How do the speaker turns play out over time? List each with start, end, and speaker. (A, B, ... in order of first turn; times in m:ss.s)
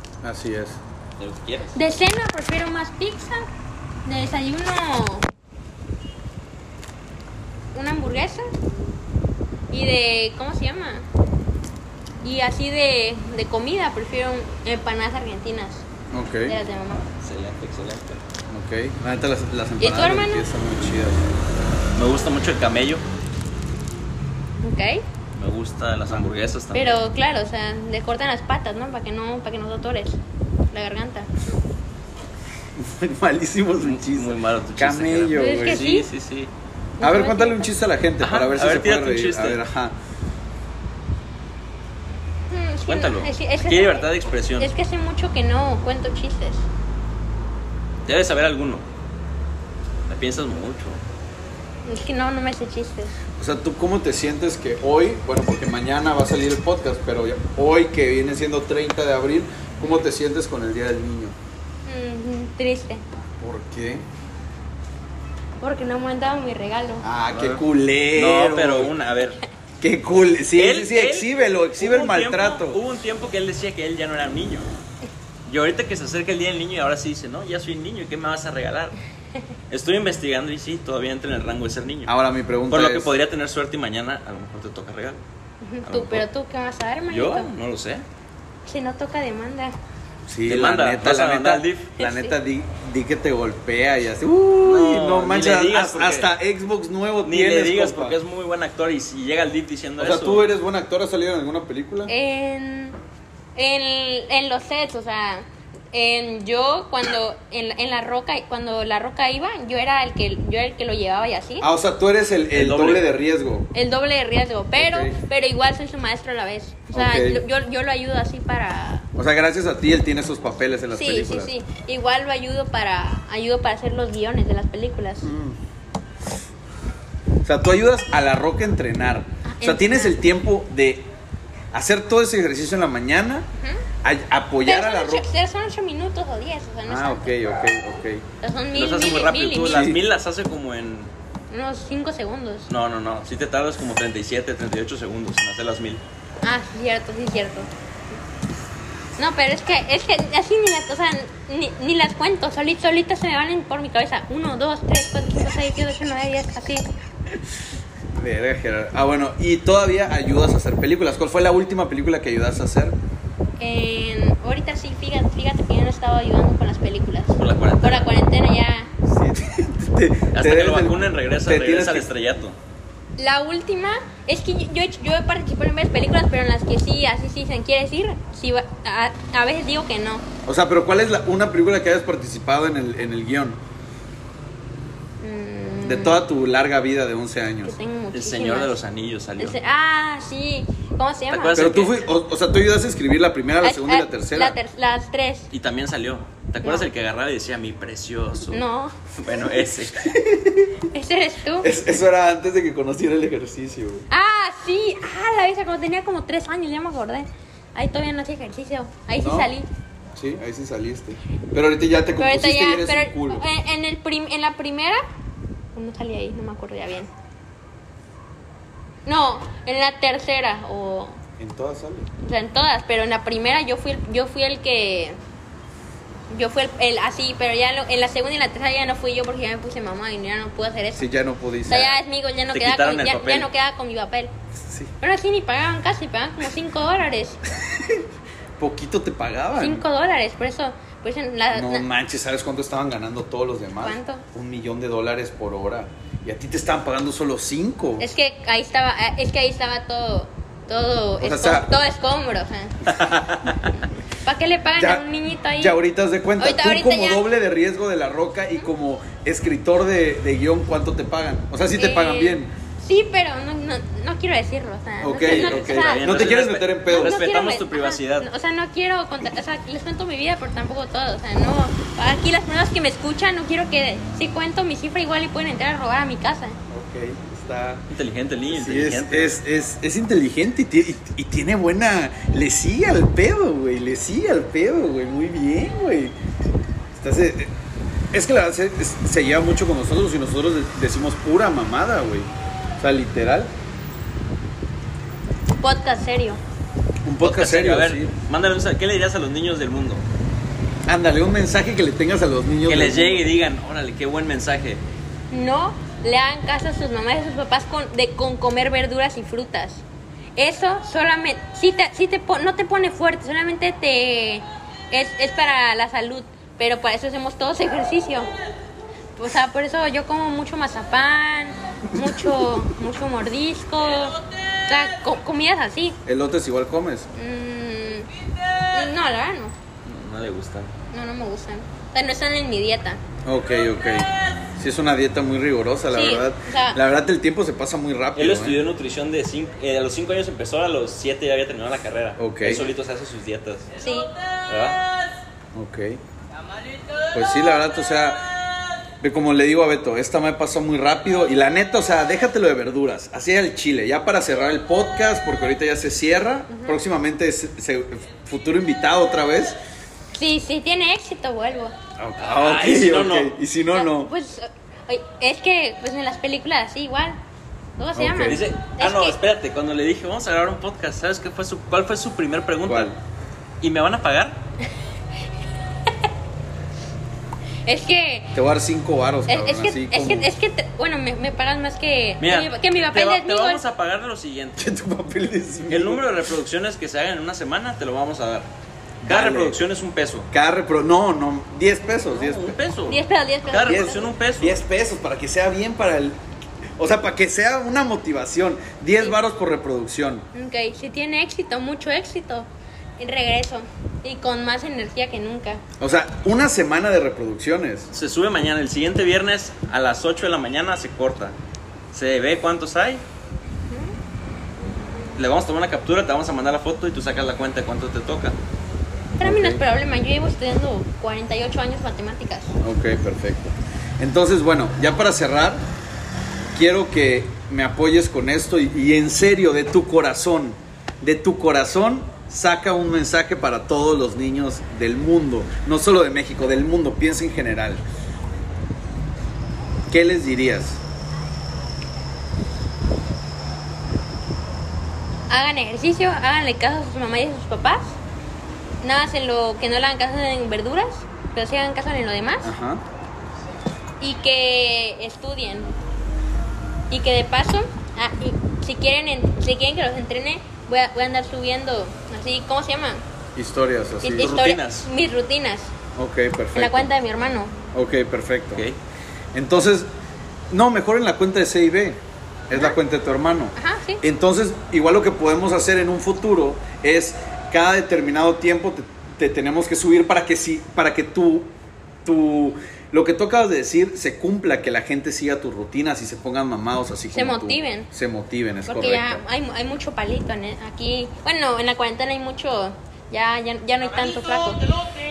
0:00.2-0:00.8 A
0:01.2-0:01.8 B
0:01.8-0:03.4 C
0:04.0-0:05.3 C
0:07.7-0:08.5 C
0:09.7-0:11.1 C
0:12.2-0:15.8 C
0:16.1-0:16.6 A
0:16.5-0:17.1 C
0:17.2-0:18.2 B
0:18.5-0:21.2 A
0:19.8-0:20.5 C
0:22.0-0:23.0 B
0:24.6-0:25.0 C
0:25.3-0:27.0 B
0:26.7-0:30.2 C
0:30.7-0:31.3 C
0:32.8-0:35.9 A
0:33.8-0:36.5 B
0:35.3-0:36.1 C
0:37.0-0:37.7 C
0:37.0-0:40.0 A
0:38.2-0:39.6 B
0:42.5-0:46.7 C
0:42.9-0:44.7 B
0:48.1-0:48.8 B
0:50.1-0:51.0 B
0:51.9-0:53.2 C
0:53.4-1:01.4 A
1:01.9-1:03.0 C
1:03.4-1:04.0 A
1:05.6-1:07.0 C
1:07.0-1:08.9 A
1:07.3-1:07.6 B
1:08.2-1:09.4 B
1:09.8-1:12.8 A
1:10.6-1:14.7 B
1:15.5-1:19.0 B
1:19.7-1:22.1 B
1:22.1-1:23.1 A
1:22.7-1:25.2 B
1:25.6-1:27.5 C
1:25.9-1:26.2 B
1:27.1-1:28.0 B
1:28.7-1:29.8 C
1:30.3-1:38.2 A
1:30.5-1:31.9 B
1:32.0-1:32.3 C
1:34.6-1:36.3 B
1:37.2-1:40.5 B
1:40.0-1:42.1 A
1:42.1-1:43.0 C
1:43.6-1:51.7 C
1:51.6-1:53.7 A
1:52.5-1:53.0 B
1:53.7-1:59.1 C
1:54.8-1:55.2 A
1:56.9-1:57.4 A
1:59.2-2:01.5 A
2:00.9-2:05.3 C
2:05.2-2:05.6 A
2:07.4-2:11.1 A
2:09.4-2:10.2 C
2:11.7-2:13.5 A
2:13.6-2:13.8 C
2:14.0-2:15.3 A
2:14.6-2:17.4 C
2:16.9-2:18.2 A
2:18.4-2:19.9 C
2:18.8-2:21.1 B
2:19.6-2:20.0 A
2:21.5-2:22.7 C
2:22.7-2:26.0 B
2:26.4-2:27.7 C
2:29.2-2:36.9 C
2:38.1-2:43.0 A
2:43.6-2:48.9 C
2:47.4-2:48.1 B
2:49.0-2:52.1 A
2:50.4-2:52.6 B
2:53.2-3:00.3 C
3:00.5-3:03.6 A
3:05.2-3:06.2 C
3:05.8-3:07.8 A
3:07.6-3:08.8 C
3:08.1-3:09.6 B
3:09.4-3:11.6 C
3:11.3-3:12.0 B
3:11.5-3:14.6 A
3:13.6-3:15.5 C
3:15.5-3:18.6 B
3:18.5-3:19.0 C
3:19.2-3:20.1 B
3:19.9-3:20.8 A
3:20.8-3:21.7 C
3:21.6-3:24.1 A
3:24.1-3:29.7 C
3:29.2-3:29.5 A
3:30.2-3:33.4 A
3:32.2-3:35.0 C
3:35.8-3:37.1 C
3:39.1-3:41.2 C
3:41.4-3:42.1 A
3:42.2-3:45.2 C
3:46.3-3:51.1 C
3:51.0-3:52.0 A
3:51.7-3:54.3 C
3:52.5-3:53.5 B
3:54.6-3:54.9 A
3:55.0-3:57.4 C
3:57.7-3:58.0 A
3:58.6-3:59.8 A
3:59.6-4:01.8 C
4:01.5-4:08.1 A
4:03.8-4:04.2 C
4:08.0-4:12.9 C
4:11.2-4:11.7 A
4:12.9-4:13.5 A
4:14.2-4:15.8 C
4:14.8-4:15.0 A
4:15.6-4:22.5 A
4:16.4-4:17.3 C
4:21.7-4:26.1 C
4:25.0-4:27.2 A
4:25.2-4:28.3 B
4:26.9-4:36.6 C
4:36.7-4:37.9 A
4:37.9-4:39.4 B
4:38.5-4:46.2 A
4:47.0-4:47.5 A
4:48.1-4:53.5 A
4:55.6-4:56.4 C
4:57.0-4:58.1 A
4:57.2-5:00.0 B
5:00.9-5:03.2 A
5:02.7-5:04.8 B
5:05.3-5:09.8 C
5:10.4-5:18.3 C
5:19.2-5:26.0 C
5:22.0-5:22.6 A
5:26.1-5:27.1 A
5:27.2-5:28.1 C
5:28.7-5:29.5 C
5:29.8-5:30.7 B
5:30.9-5:33.0 C
5:33.2-5:38.6 A
5:35.9-5:36.8 C
5:38.2-5:43.7 B
5:42.2-5:42.7 A
5:43.8-5:44.1 C
5:44.5-5:44.8 B
5:45.5-5:46.0 A
5:47.1-5:48.3 A
5:49.0-5:59.6 A
5:56.5-5:56.8 C
6:00.1-6:01.8 C
6:02.0-6:04.1 A
6:02.2-6:03.3 B
6:03.7-6:07.2 C
6:07.8-6:09.2 C
6:08.0-6:08.4 A
6:08.2-6:12.9 B
6:12.7-6:13.0 A
6:13.6-6:14.4 B
6:17.7-6:18.4 C
6:18.3-6:20.3 A
6:19.3-6:23.6 C
6:22.2-6:24.7 B
6:24.6-6:26.1 A
6:25.7-6:28.5 B
6:29.0-6:29.6 A
6:29.1-6:30.3 B
6:30.3-6:32.6 A
6:32.1-6:34.6 B
6:32.9-6:34.0 C
6:33.6-6:36.2 A
6:36.8-6:40.3 A
6:40.3-6:45.6 C
6:45.8-6:47.9 A
6:47.9-6:51.4 B
6:51.9-6:53.0 B
6:53.7-6:54.0 C
6:55.2-6:58.4 B
6:59.2-6:59.6 A
6:59.2-7:02.6 C
7:02.6-7:05.6 A
7:06.5-7:17.8 A
7:19.9-7:20.8 A
7:25.3-7:28.0 C
7:28.8-7:32.5 C
7:32.4-7:32.8 A
7:34.0-7:35.7 C
7:36.9-7:43.0 C
7:43.4-7:44.3 A
7:44.0-7:45.7 C
7:44.2-7:44.9 B
7:46.0-7:46.9 A
7:46.6-7:47.6 C
7:47.7-7:48.7 A
7:49.3-7:49.9 A
7:50.5-8:01.5 A
7:53.6-7:54.0 C
8:02.0-8:09.2 A
8:07.1-8:07.9 C
8:08.7-8:14.6 C